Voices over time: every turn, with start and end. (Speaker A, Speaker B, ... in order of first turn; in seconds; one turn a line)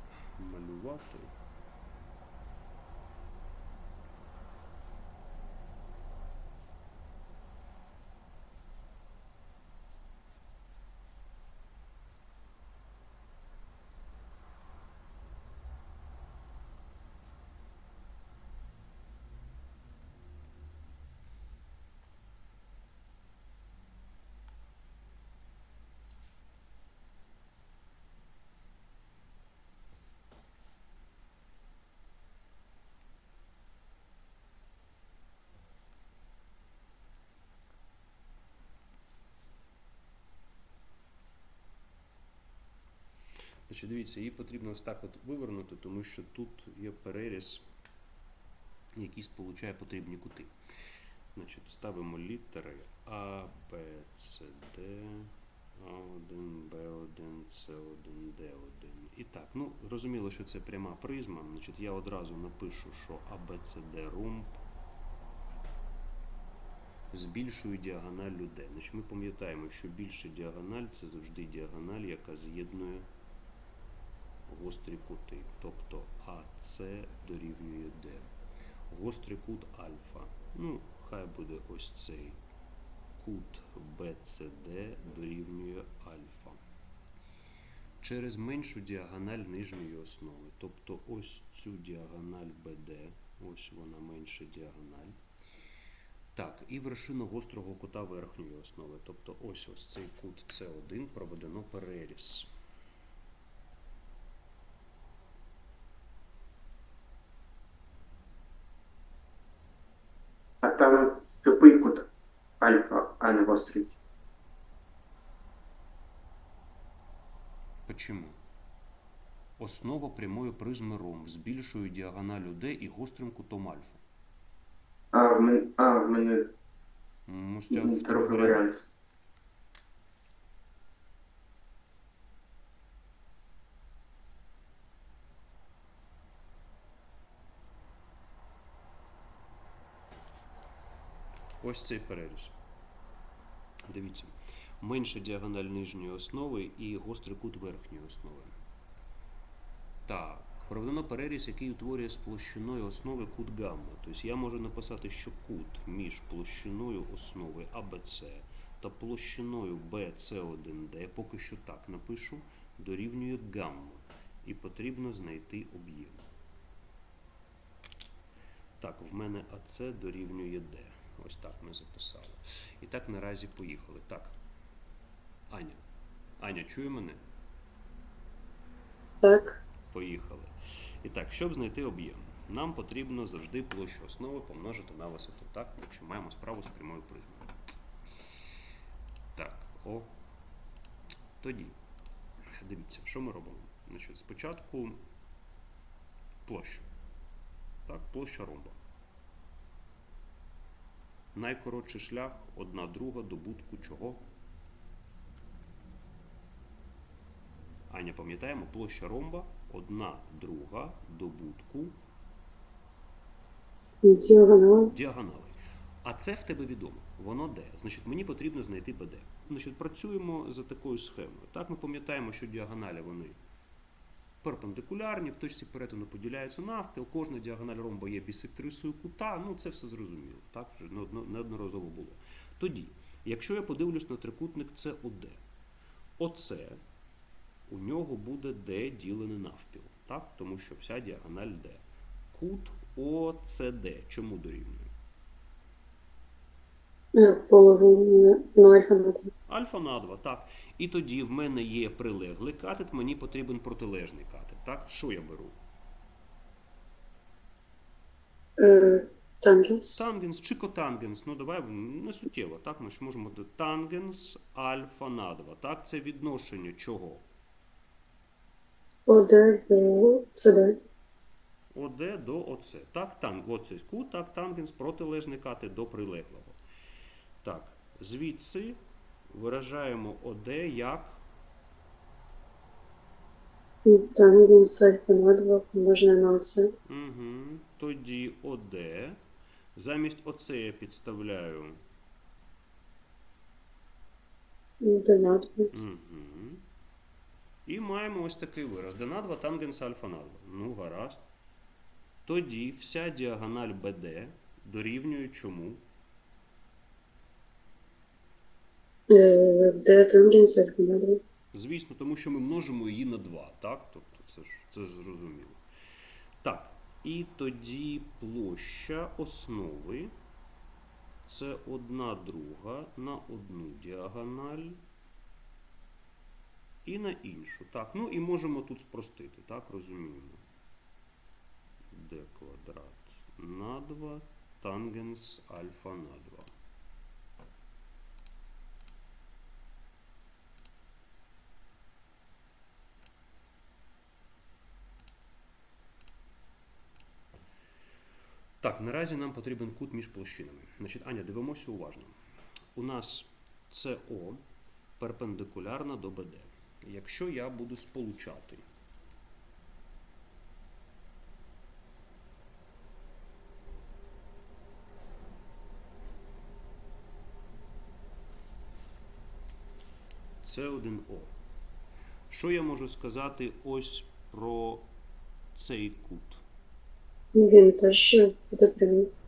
Speaker A: 0.3-1.3
Speaker A: 43.7-47.6
Speaker A: 49.0-50.5
Speaker A: 51.4-64.6
Speaker A: 67.1-73.1
Speaker A: 74.5-78.3
Speaker A: 78.9-82.4
Speaker A: 83.2-86.6
Speaker A: 88.0-95.2
Speaker A: 96.3-102.5
Speaker B: 110.6-112.1
Speaker B: 112.6-114.0
Speaker A: 117.9-118.4
Speaker A: 119.6-124.0
Speaker B: 125.1-126.5
Speaker A: 127.3-128.6
Speaker B: 127.7-128.8
Speaker A: 141.6-142.6
Speaker A: 143.9-148.6
Speaker A: 150.1-166.2
Speaker A: 168.8-174.3
Speaker A: 175.5-175.8
Speaker A: 176.4-177.2
Speaker C: 179.2-179.6
Speaker A: 179.9-187.6
Speaker A: 189.3-190.2
Speaker A: 191.4-191.8
Speaker A: 192.5-195.0
Speaker A: 196.4-196.9
Speaker A: 197.9-198.8
Speaker A: 201.3-204.2
Speaker A: 207.9-212.0
Speaker C: 214.0-214.9
Speaker A: 214.9-223.4
Speaker A: 224.4-235.4
Speaker A: 236.2-236.8
Speaker A: 237.7-244.9
Speaker C: 247.2-249.3
Speaker A: 249.5-255.6
Speaker C: 258.6-260.0
Speaker A: 259.9-267.2
Speaker C: 269.1-270.8
Speaker A: 271.7-276.6
Speaker A: 277.4-278.8
Speaker A: 279.3-281.2
Speaker C: 283.9-286.7
Speaker A: 286.9-289.2
Speaker A: 289.8-291.8
Speaker C: 294.8-295.7
Speaker A: 295.7-296.6
Speaker A: 297.7-301.2
Speaker A: 302.2-305.8
Speaker C: 309.1-311.2
Speaker A: 311.5-315.6
Speaker A: 316.4-320.1
Speaker A: 321.2-324.8
Speaker A: 326.9-330.4
Speaker A: 331.9-336.5
Speaker A: 348.6-352.1
Speaker A: 352.8-354.4
Speaker A: 355.0-358.7
Speaker A: 370.4-371.3
Speaker A: 372.3-374.9
Speaker A: 375.6-376.4
Speaker C: 377.3-379.1